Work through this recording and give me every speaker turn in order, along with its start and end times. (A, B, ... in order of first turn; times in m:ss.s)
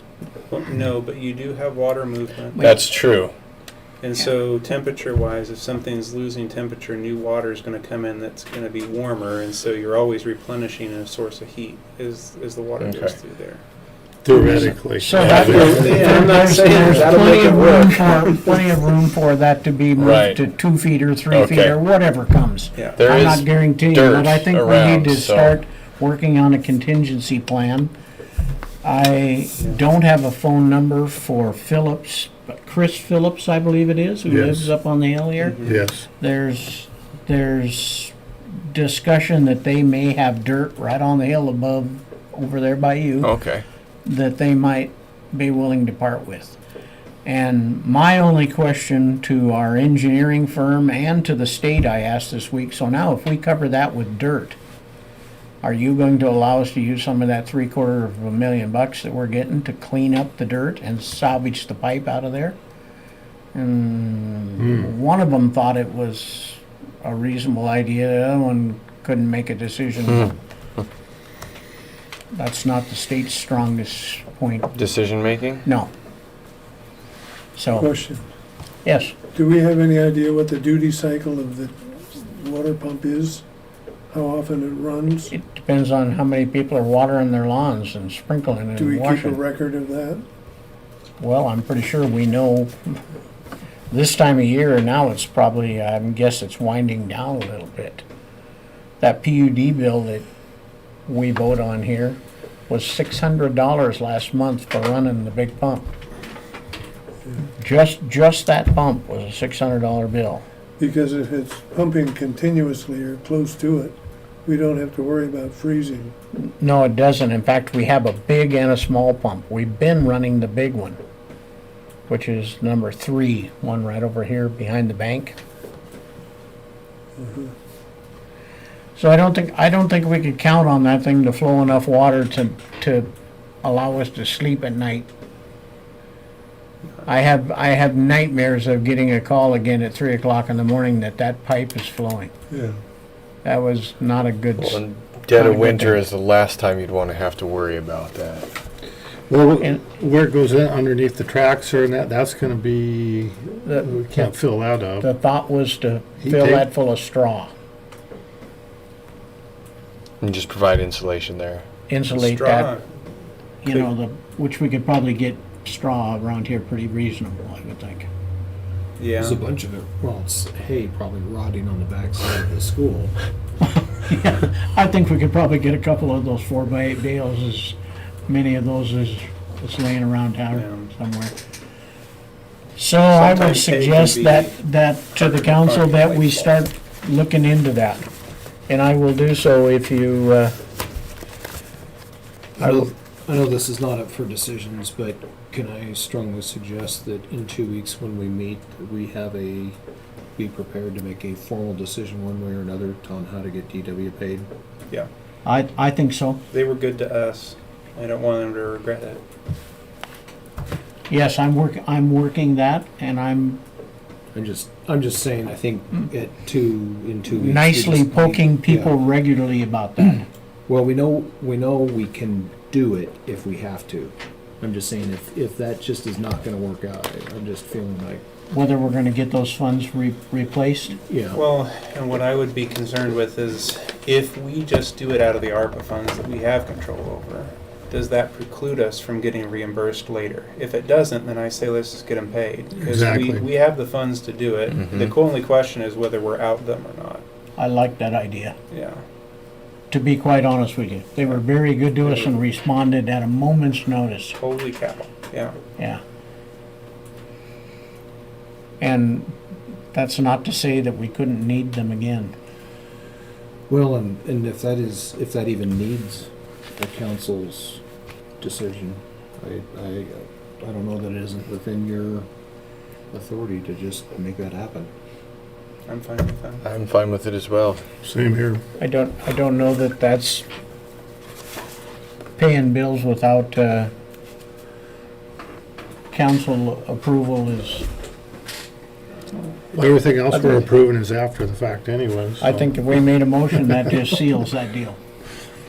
0:00.5-0:02.7 A
0:02.6-0:02.8 B
0:02.6-0:03.3 C
0:04.0-0:13.6 A
0:12.8-0:13.2 C
0:14.2-0:15.8 D
0:14.3-0:27.9 B
0:15.1-0:15.6 C
0:15.2-0:18.1 A
0:15.5-0:17.7 E
0:17.1-0:18.0 C
0:20.0-0:20.4 C
0:21.3-0:21.8 C
0:22.7-0:23.0 A
0:23.0-0:25.6 C
0:28.8-0:43.3 B
0:34.3-0:34.7 D
0:35.4-0:35.7 A
0:35.6-0:36.0 D
0:43.2-0:43.6 C
0:44.0-0:46.6 B
0:47.2-0:54.6 B
0:55.6-1:02.6 B
1:03.5-1:10.4 B
1:04.6-1:04.9 D
1:10.1-1:10.3 C
1:12.3-1:14.8 B
1:14.7-1:15.6 C
1:15.6-1:15.9 B
1:17.6-1:17.9 B
1:17.7-1:18.3 F
1:18.8-1:19.1 B
1:19.3-1:23.4 F
1:24.1-1:25.3 F
1:25.3-1:29.4 B
1:28.8-1:30.2 F
1:31.2-1:33.0 B
1:33.9-1:38.0 B
1:39.0-1:40.3 B
1:41.0-1:45.9 B
1:47.6-1:50.4 B
1:50.8-1:53.9 F
1:54.4-1:56.1 F
1:56.3-2:01.0 B
2:02.1-2:05.4 B
2:07.2-2:07.5 F
2:09.0-2:13.1 B
2:13.6-2:15.1 B
2:17.0-2:22.3 B
2:22.5-2:22.8 F
2:23.4-2:26.0 B
2:24.6-2:28.5 C
2:29.3-2:35.1 D
2:35.0-2:37.5 B
2:36.2-2:36.6 D
2:40.2-2:41.6 C
2:41.9-2:42.7 B
2:42.1-2:42.8 A
2:43.6-2:48.1 B
2:49.0-2:49.4 A
2:49.2-2:53.1 E
2:53.6-2:57.8 B
2:58.3-3:01.3 B
3:00.5-3:00.9 A
3:02.8-3:08.1 B
3:03.1-3:04.6 A
3:05.2-3:06.4 A
3:08.7-3:10.6 B
3:12.6-3:19.8 E
3:12.6-3:12.9 B
3:20.4-3:24.5 E
3:25.4-3:26.4 B
3:26.5-3:29.2 A
3:31.1-3:33.6 B
3:34.3-3:39.0 E
3:37.3-3:40.3 B
3:40.7-3:48.2 E
3:48.5-3:51.0 B
3:51.1-3:51.4 E
3:51.3-4:07.2 A
4:02.8-4:03.4 D
4:04.7-4:05.1 C
4:07.6-4:08.6 B
4:08.7-4:09.0 A
4:09.9-4:14.4 B
4:12.0-4:12.3 A
4:14.4-4:15.6 A
4:18.8-4:19.3 B
4:19.9-4:22.3 B
4:23.7-4:27.8 E
4:28.4-4:32.3 E
4:33.1-4:34.9 E
4:35.9-4:36.6 A
4:36.6-4:37.8 C
4:38.0-4:38.6 D
4:38.8-4:40.4 B
4:42.4-4:43.9 B
4:46.1-4:47.9 B
4:49.7-4:52.6 D
4:52.4-4:55.0 B